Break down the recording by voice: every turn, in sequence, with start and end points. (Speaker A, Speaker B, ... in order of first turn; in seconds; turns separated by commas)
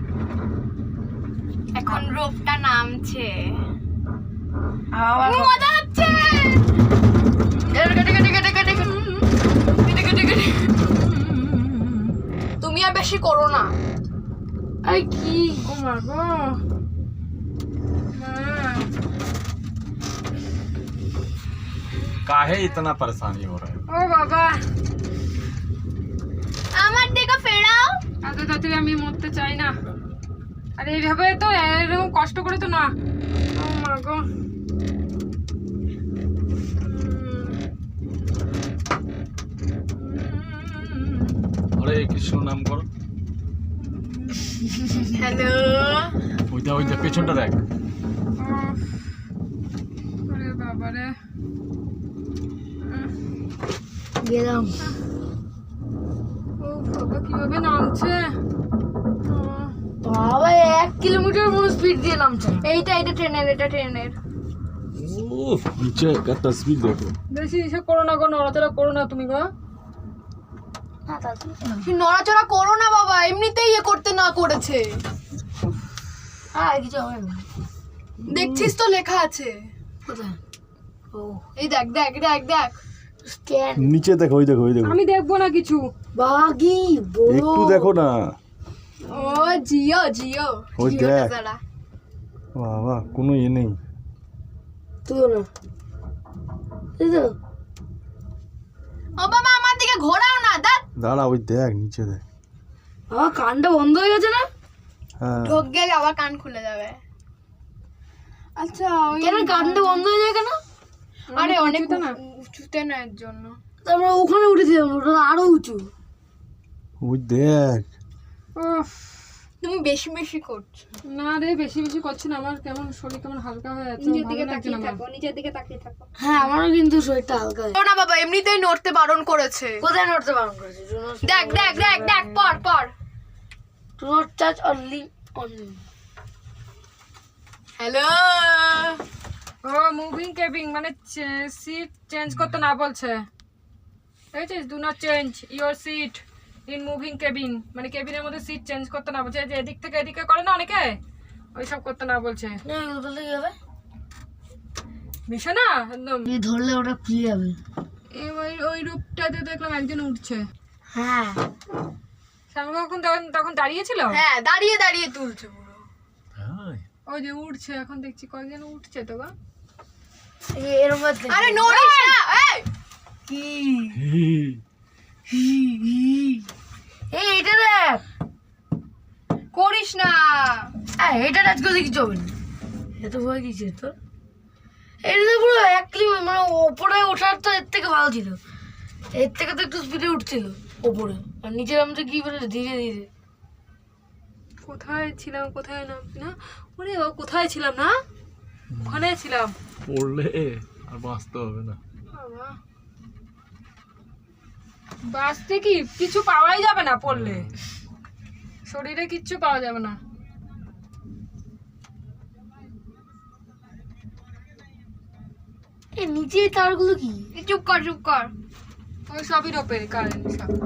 Speaker A: 1.7-3.5, Speaker B: 4.9-5.7, Speaker A: 5.2-6.7, Speaker B: 7.7-8.9, Speaker A: 9.8-10.8, Speaker C: 10.9-12.1, Speaker A: 12.6-13.7, Speaker B: 14.8-15.7, Speaker C: 15.6-16.6, Speaker C: 18.1-18.9, Speaker D: 22.2-23.8, Speaker C: 23.9-24.6, Speaker A: 26.7-28.0, Speaker C: 28.2-29.7, Speaker C: 30.8-32.9, Speaker C: 33.5-34.2, Speaker C: 36.8-37.6, Speaker C: 40.0-41.4, Speaker D: 41.8-42.9, Speaker C: 43.9-44.7, Speaker A: 45.1-46.1, Speaker D: 46.5-47.6, Speaker C: 46.8-47.4, Speaker C: 48.4-49.0, Speaker C: 50.3-51.1, Speaker B: 54.2-54.8, Speaker C: 56.6-58.2, Speaker C: 59.2-59.7, Speaker B: 60.0-62.6, Speaker A: 62.6-64.1, Speaker D: 65.0-67.1, Speaker C: 67.3-69.5, Speaker B: 71.1-71.9, Speaker A: 71.8-74.9, Speaker B: 76.5-77.4, Speaker A: 78.3-79.5, Speaker D: 78.3-78.7, Speaker B: 80.1-80.4, Speaker B: 81.1-81.5, Speaker A: 81.6-82.8, Speaker B: 83.2-84.0, Speaker D: 83.8-85.0, Speaker C: 84.8-85.9, Speaker B: 86.1-87.9, Speaker D: 87.3-88.3, Speaker A: 89.0-91.6, Speaker D: 90.8-91.3, Speaker D: 92.5-93.8, Speaker B: 95.0-95.5, Speaker B: 97.0-97.3, Speaker A: 99.2-100.8, Speaker D: 101.0-102.2, Speaker B: 103.1-104.5, Speaker D: 105.2-105.6, Speaker A: 105.4-107.0, Speaker A: 108.5-110.0, Speaker B: 109.2-110.6, Speaker C: 111.3-112.1, Speaker A: 111.3-113.6, Speaker B: 113.8-115.9, Speaker D: 117.0-117.9, Speaker C: 118.5-119.1, Speaker A: 119.6-120.8, Speaker C: 121.1-125.0, Speaker A: 124.0-126.0, Speaker B: 126.2-127.7, Speaker A: 127.7-129.8, Speaker B: 129.8-132.6, Speaker A: 131.2-132.9, Speaker B: 134.0-135.8, Speaker A: 137.8-139.0, Speaker C: 139.6-143.2, Speaker C: 144.3-151.0, Speaker C: 151.5-152.6, Speaker B: 152.6-153.6, Speaker C: 155.3-156.3, Speaker B: 156.2-157.6, Speaker C: 158.1-160.5, Speaker B: 160.9-161.4, Speaker C: 162.5-164.2, Speaker A: 164.1-165.8, Speaker C: 167.1-169.3, Speaker B: 170.5-172.1, Speaker A: 171.3-172.7, Speaker B: 173.3-174.0, Speaker D: 174.1-174.6, Speaker B: 175.3-176.4, Speaker B: 177.1-178.0, Speaker A: 179.5-180.7, Speaker B: 180.9-182.4, Speaker B: 183.0-183.9, Speaker B: 185.0-188.4, Speaker B: 189.1-193.1, Speaker C: 194.7-198.0, Speaker D: 198.8-199.0, Speaker C: 198.8-199.5, Speaker D: 199.8-201.8, Speaker C: 202.1-202.6, Speaker C: 205.1-207.5, Speaker D: 207.1-207.4, Speaker C: 208.7-210.0, Speaker B: 215.9-217.3, Speaker A: 217.3-218.3, Speaker C: 219.1-220.5